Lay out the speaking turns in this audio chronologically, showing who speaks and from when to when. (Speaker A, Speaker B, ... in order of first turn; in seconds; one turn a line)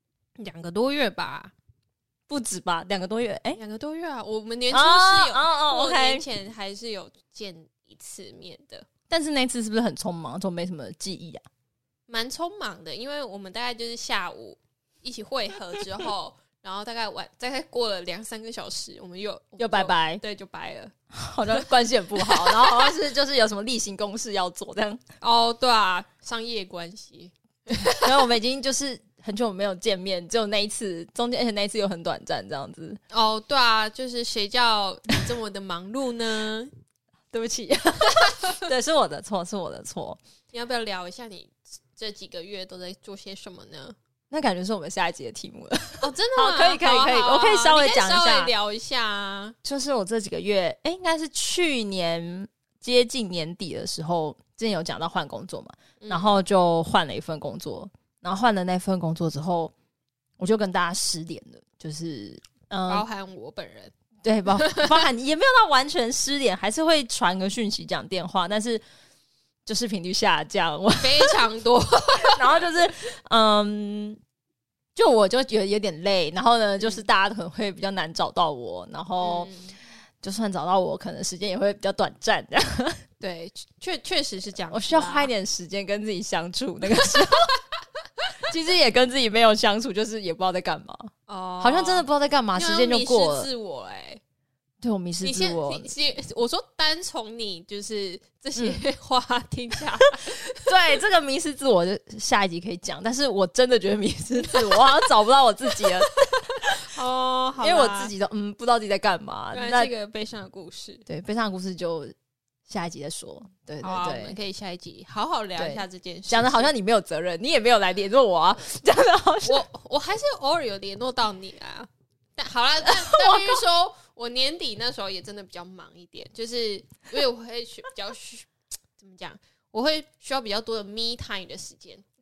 Speaker A: 0.3-1.5
Speaker B: 2.3-3.6
Speaker A: 3.5-8.9
Speaker B: 4.7-6.2
Speaker B: 9.1-11.4
Speaker A: 12.1-20.9
Speaker B: 19.6-20.2
Speaker B: 21.1-25.0
Speaker A: 22.2-22.9
Speaker A: 25.2-28.2
Speaker B: 27.9-33.0
Speaker A: 33.1-36.7
Speaker B: 37.3-40.2
Speaker A: 38.2-38.6
Speaker A: 40.5-44.0
Speaker B: 44.3-48.5
Speaker A: 46.0-49.5
Speaker B: 49.6-59.7
Speaker A: 56.0-56.4
Speaker B: 60.4-63.0
Speaker A: 62.9-63.9
Speaker B: 64.2-68.8
Speaker A: 64.5-65.0
Speaker B: 69.7-71.4
Speaker A: 71.0-72.7
Speaker B: 72.3-74.2
Speaker B: 74.9-79.5
Speaker A: 79.2-79.8
Speaker B: 80.2-83.0
Speaker A: 83.2-85.3
Speaker B: 84.7-87.5
Speaker B: 88.4-93.5
Speaker A: 91.3-94.2
Speaker B: 94.8-95.9
Speaker A: 95.2-100.7
Speaker B: 98.5-98.8
Speaker B: 100.6-106.8
Speaker A: 104.5-104.8
Speaker A: 106.6-108.1
Speaker B: 107.6-109.9
Speaker A: 109.5-111.0
Speaker B: 111.1-112.1
Speaker B: 112.7-114.3
Speaker A: 113.8-116.7
Speaker B: 115.6-119.6
Speaker A: 119.4-132.0
Speaker B: 122.8-123.6